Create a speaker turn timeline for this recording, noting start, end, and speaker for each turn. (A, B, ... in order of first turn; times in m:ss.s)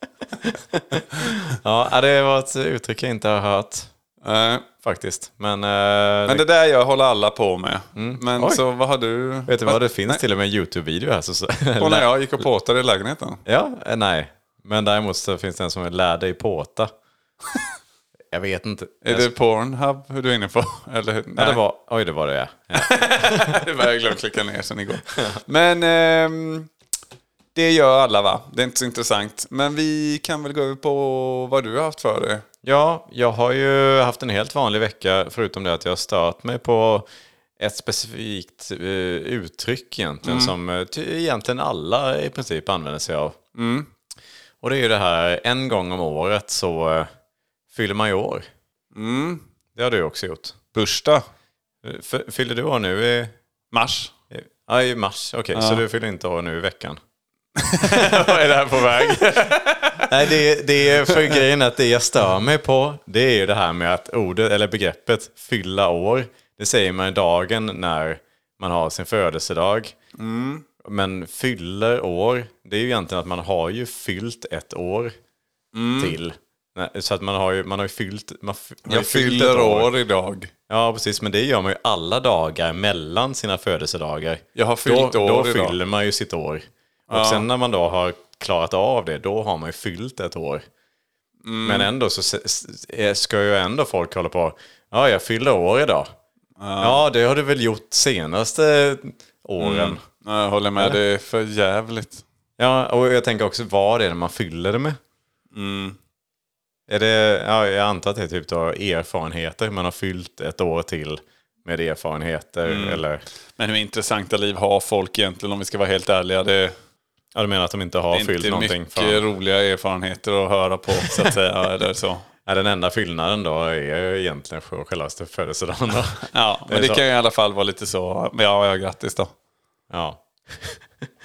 0:00.4-0:03.9 A
0:04.2-0:04.7 B
0:04.8-0:06.4 A
0:06.3-0:10.2 B
0:07.9-0:08.6 A
0:09.5-0:12.1 A
0:11.8-0:13.4 B
0:13.4-0:16.9 A
0:18.3-0:19.3 A
0:19.0-0:21.6 B
0:21.4-0:23.6 A
0:22.7-0:26.7 B
0:27.5-0:32.4 B
0:32.6-0:37.1 A
0:37.6-0:43.4 A
0:40.2-0:40.5 B
0:43.5-0:43.9 B
0:44.6-0:47.1 A
0:47.7-0:48.5 A
0:48.9-0:49.4 B
0:49.7-0:50.6 A
0:50.7-0:51.2 B
0:51.8-0:53.3 A
0:53.7-0:54.1 B
0:54.3-0:57.0 A
0:55.5-0:55.8 B
0:57.6-1:00.4 B
0:57.8-0:59.4 A
1:00.0-1:09.9 A
1:01.0-1:01.4 B
1:10.2-1:10.6 B
1:10.8-1:15.1 A
1:15.7-1:16.2 B
1:16.0-1:19.9 A
1:18.8-1:20.5 B
1:20.7-1:30.6 A
1:24.5-1:25.8 B
1:27.1-1:27.5 B
1:31.4-1:31.9 B
1:31.6-1:36.1 A
1:36.6-1:37.0 B
1:36.8-1:40.0 A
1:39.6-1:42.2 B
1:42.6-1:45.0 A
1:45.5-1:46.0 B
1:46.9-1:53.2 A
1:52.6-1:53.0 B
1:53.6-1:56.7 B
1:57.3-1:59.2 A
1:58.1-2:02.3 B
2:02.4-2:07.0 A
2:06.2-2:09.3 B
2:09.9-2:10.8 A